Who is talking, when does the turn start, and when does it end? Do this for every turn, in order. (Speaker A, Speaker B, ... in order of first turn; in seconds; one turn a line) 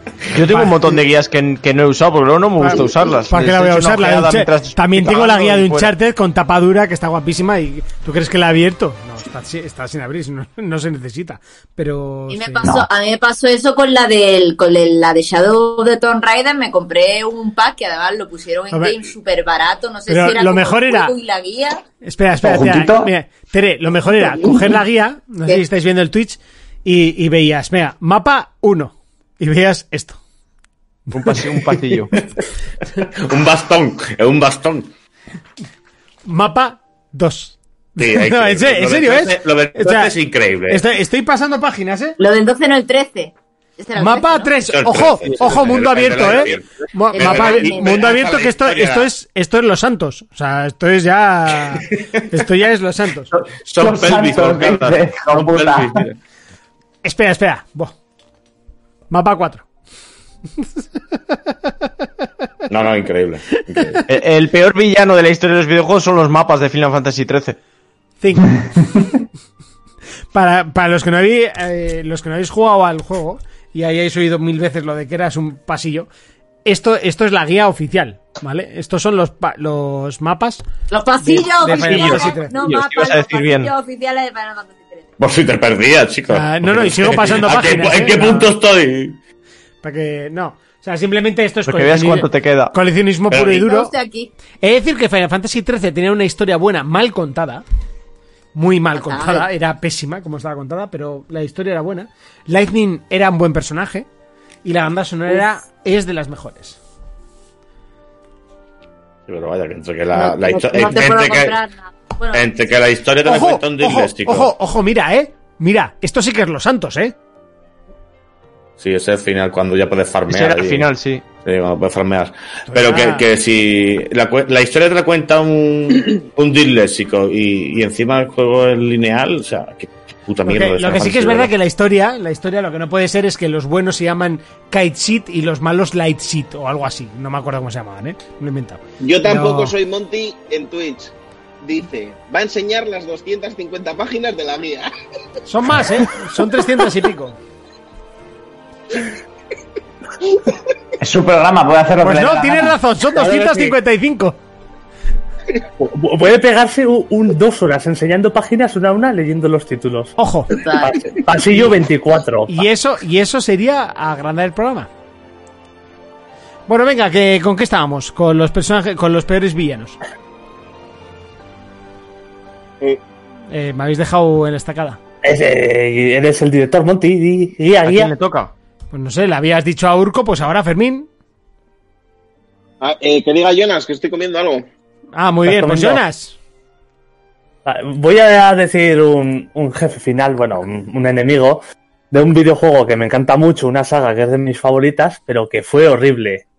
Speaker A: 0.3-5.9
Speaker B: 0.4-0.8
Speaker B: 2.6-12.8
Speaker C: 12.3-21.8
Speaker B: 18.7-19.0
Speaker B: 20.1-21.1
Speaker B: 22.0-30.2
Speaker D: 22.4-23.1
Speaker B: 31.1-31.4
Speaker A: 31.1-32.1
Speaker E: 33.2-34.9
Speaker B: 36.2-40.1
Speaker E: 38.0-40.8
Speaker B: 40.7-42.2
Speaker C: 42.2-44.5
Speaker B: 44.0-53.3
Speaker E: 44.6-49.1
Speaker C: 47.1-48.1
Speaker E: 53.3-56.2
Speaker D: 53.8-56.0
Speaker B: 57.0-57.9
Speaker B: 59.1-59.6
Speaker E: 62.7-64.0
Speaker A: 64.1-67.6
Speaker B: 68.2-69.2
Speaker B: 70.3-76.1
Speaker B: 76.6-80.6
Speaker C: 80.9-85.1
Speaker B: 81.2-82.5
Speaker A: 81.6-83.7
Speaker E: 85.2-89.2
Speaker B: 86.3-88.5
Speaker B: 89.8-93.9
Speaker A: 91.7-92.7
Speaker C: 93.4-94.3
Speaker B: 94.6-97.6
Speaker B: 98.5-104.1
Speaker C: 98.9-99.4
Speaker B: 104.6-106.8
Speaker E: 109.3-111.6
Speaker C: 110.1-112.6
Speaker E: 112.3-114.5
Speaker B: 113.2-117.1
Speaker E: 118.8-120.9
Speaker A: 120.3-121.2
Speaker E: 121.4-131.5
Speaker B: 122.7-123.2
Speaker B: 130.4-139.7
Speaker F: 139.0-144.9
Speaker B: 145.4-147.4
Speaker D: 151.0-152.8
Speaker B: 152.0-154.4
Speaker G: 153.1-153.7
Speaker G: 155.8-160.1
Speaker B: 160.2-160.6
Speaker C: 160.5-161.2
Speaker G: 160.7-162.6
Speaker B: 162.5-164.9
Speaker B: 166.7-170.0
Speaker B: 173.5-175.0
Speaker G: 175.2-178.1
Speaker A: 177.8-178.5
Speaker B: 178.9-181.1
Speaker F: 182.8-184.7
Speaker B: 185.1-186.3
Speaker G: 185.4-186.0
Speaker G: 187.6-196.4